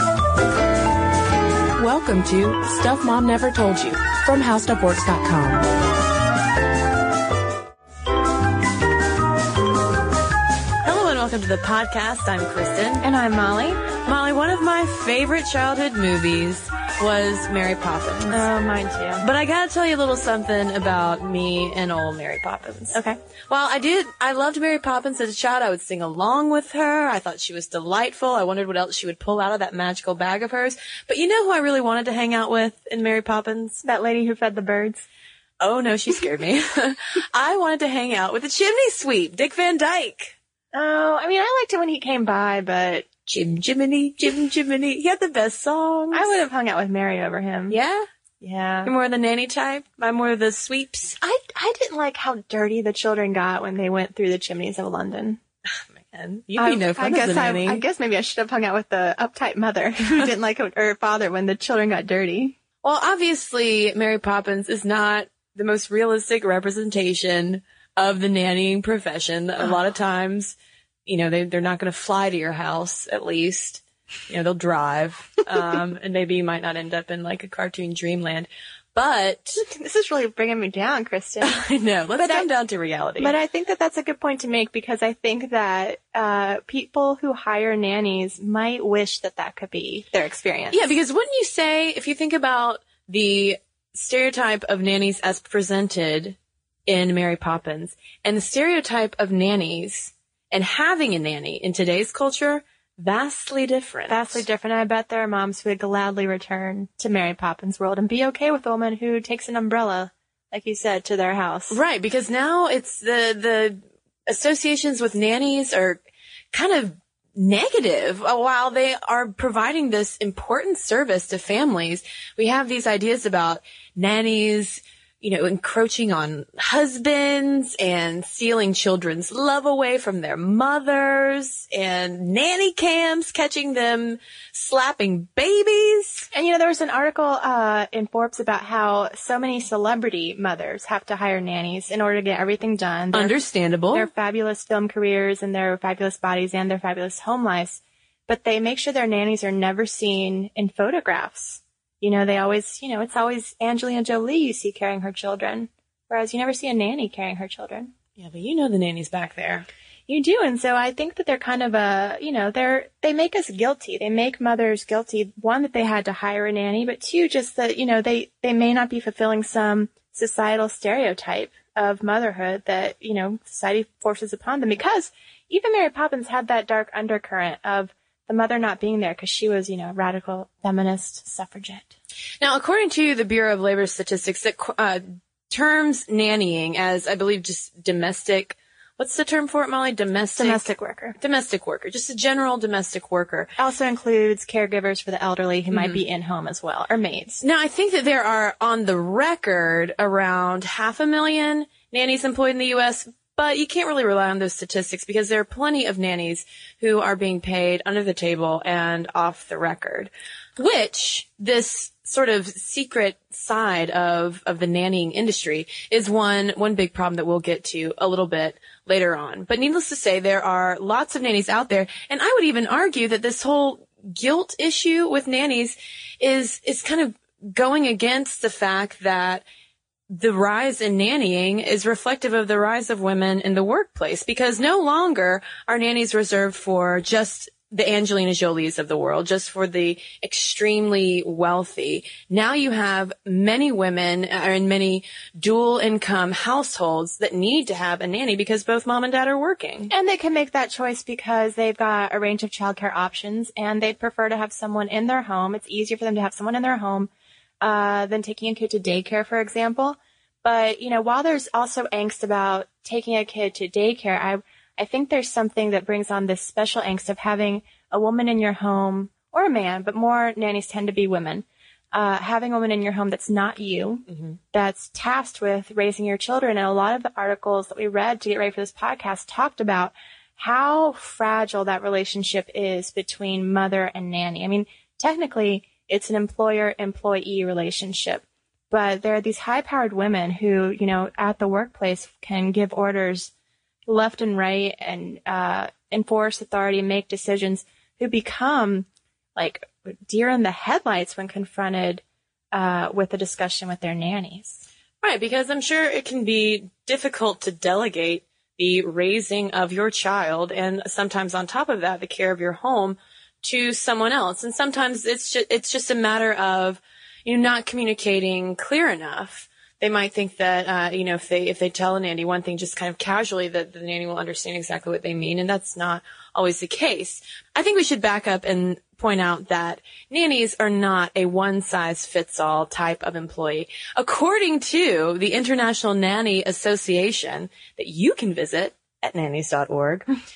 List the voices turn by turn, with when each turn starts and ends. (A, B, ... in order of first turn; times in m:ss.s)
0:01.8-0:05.6 A
0:10.8-0:13.0 B
0:13.0-0:13.8 C
0:13.9-0:18.5 B
0:18.3-0:19.2 C
0:19.2-0:33.8 B
0:22.9-0:23.2 C
0:33.8-0:35.1 C
0:35.6-0:40.4 B
0:40.7-0:43.1 C
0:43.2-0:46.5 B
0:46.1-0:47.8 C
0:47.7-0:48.0 B
0:48.4-0:48.9 C
0:48.8-0:51.2 B
0:51.2-0:55.4 C
0:55.9-0:57.8 B
0:56.5-1:02.6 C
1:02.8-1:19.6 B
1:19.7-1:21.6 C
1:21.4-1:23.3 B
1:22.2-1:22.5 C
1:23.2-1:30.9 C
1:30.7-1:44.4 B
1:44.1-1:51.8 C
1:51.7-2:16.3 B
2:16.3-2:23.3 C
2:23.1-2:24.1 B
2:24.0-2:37.9 C
2:38.2-2:39.7 B
2:40.1-3:01.9 C
3:02.4-3:13.5 B
3:10.4-3:11.2 C
3:13.6-3:17.4 C
3:15.7-3:16.0 B
3:17.4-3:49.4 B
3:50.1-4:09.9 B
4:09.9-4:17.1 C
4:17.6-4:53.3 C
4:53.9-5:04.6 C
5:05.0-5:40.1 B